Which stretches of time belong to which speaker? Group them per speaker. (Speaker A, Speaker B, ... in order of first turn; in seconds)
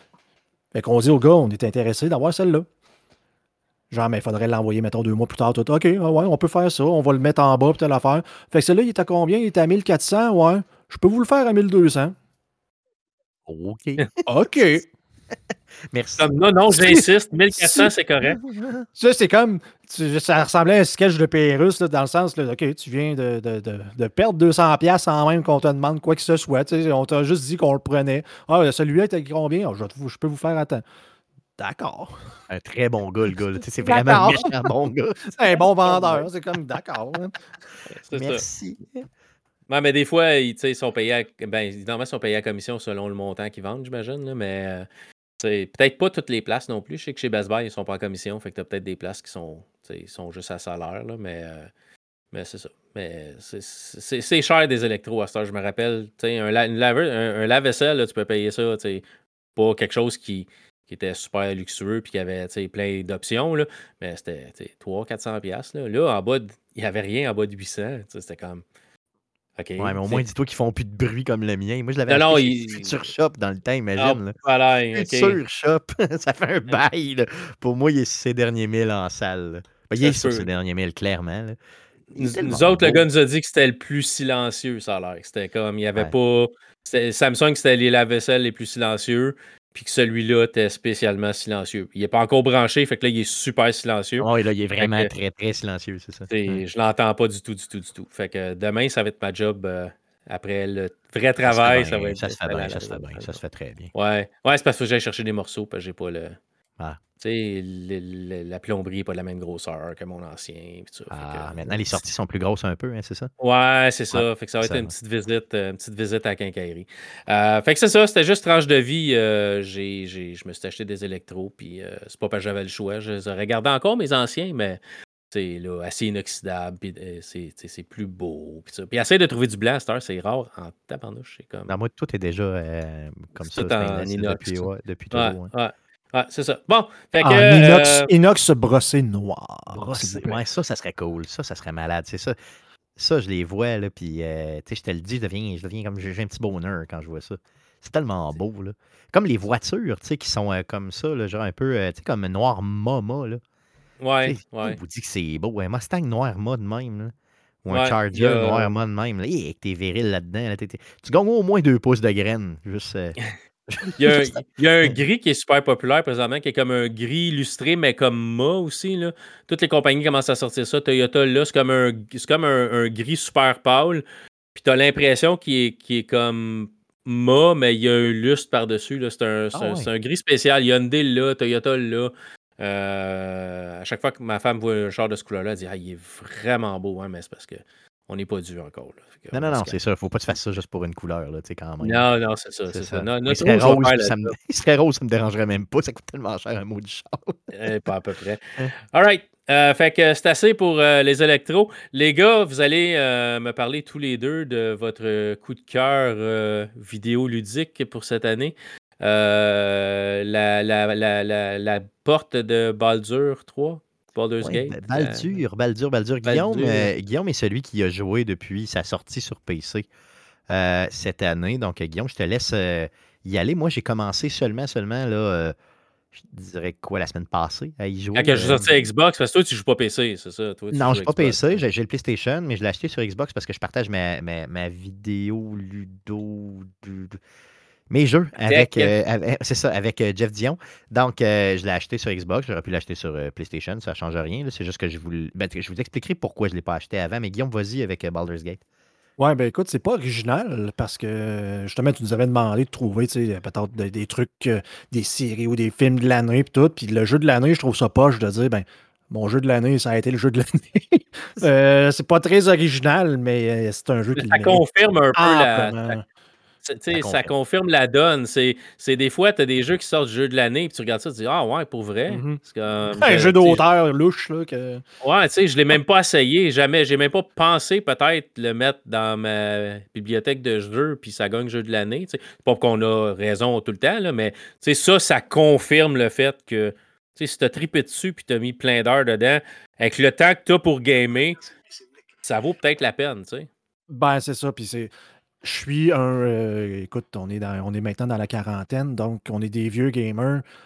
Speaker A: 0.7-2.7, 3.9-12.2, 14.3-14.8, 19.0-30.8, 31.6-32.2, 33.8-34.6, 35.3-37.4, 137.2-140.4, 249.2-264.6, 265.1-266.0, 272.1-272.4, 272.9-274.8, 293.9-294.9, 295.4-300.4
Speaker B: 13.5-14.8, 15.9-17.0, 18.2-18.9, 32.5-36.3, 38.1-39.0, 69.8-74.3, 74.9-81.6, 82.1-83.0, 94.2-96.6, 101.5-103.9, 111.1-113.3, 114.1-114.9, 131.7-135.5, 139.7-142.4, 143.0-153.4, 154.2-163.2, 163.7-165.0, 179.5-179.9, 189.3-192.1, 192.7-197.4, 214.4-219.9, 220.5-225.5, 226.2-228.9, 230.7-237.2, 237.9-248.6, 266.9-267.3
Speaker C: 16.2-18.4, 38.1-38.4, 39.7-44.9, 45.4-51.7, 52.3-59.0, 59.6-68.6, 69.6-70.2, 72.1-73.0, 74.0-75.4, 80.0-80.5, 82.2-95.1, 96.3-103.4, 103.9-106.4, 107.2-112.0, 113.4-124.8, 125.3-131.7, 133.5-138.1, 154.0-154.8, 157.7-158.7, 164.0-174.0, 174.6-189.8, 191.8-194.3, 197.5-215.3, 216.2-216.9, 228.2-231.6, 238.5-238.9, 264.2-266.0, 266.6-273.6, 275.0-291.4, 292.2-293.5